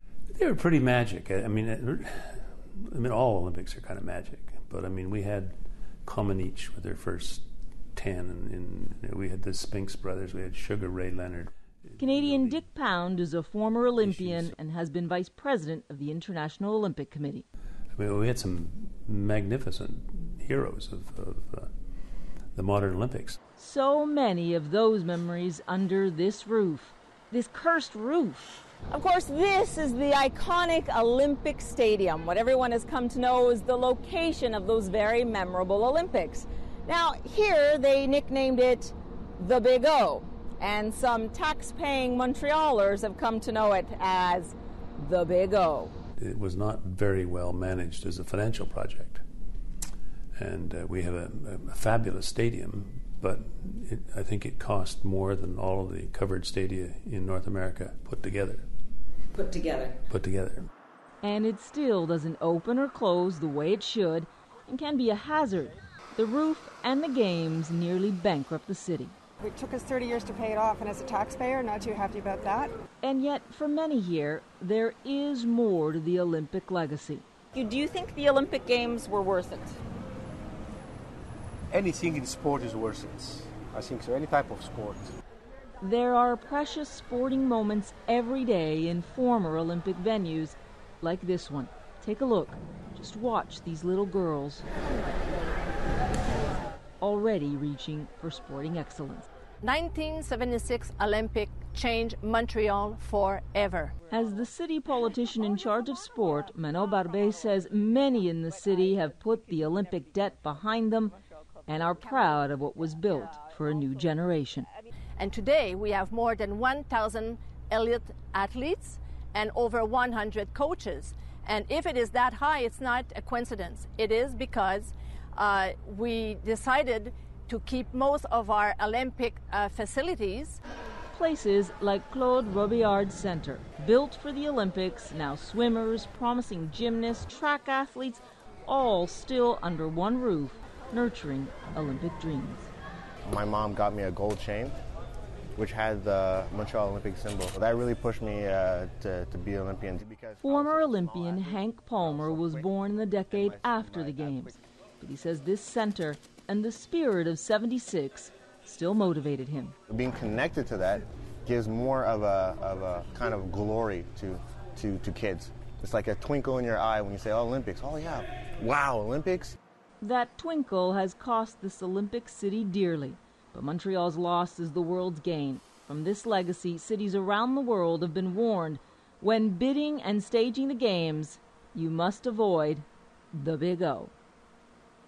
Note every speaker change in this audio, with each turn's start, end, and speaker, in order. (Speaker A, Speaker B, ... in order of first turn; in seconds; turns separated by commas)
Speaker A: 0.3-12.6, Speaker B: 12.0-17.4, Speaker A: 14.0-14.5, Speaker A: 17.9-21.7, Speaker A: 22.5-23.4, Speaker B: 23.6-28.7, Speaker C: 28.9-45.9, Speaker A: 46.2-49.2, Speaker A: 50.4-58.6, Speaker C: 59.5-59.9, Speaker A: 60.1-60.7, Speaker B: 61.2-69.1, Speaker D: 69.4-72.7, Speaker B: 73.0-77.2, Speaker C: 77.5-79.8, Speaker E: 81.7-85.2, Speaker B: 85.8-94.7, Speaker B: 97.0-99.3, Speaker F: 99.6-103.9, Speaker B: 104.1-111.1, Speaker B: 111.7-114.7, Speaker F: 115.2-130.6, Speaker B: 131.1-142.7, Speaker G: 143.2-144.8, Speaker G: 145.6-152.7, Speaker B: 150.4-159.8, Speaker G: 153.3-154.6, Speaker G: 159.9-169.6, Speaker B: 170.0-184.1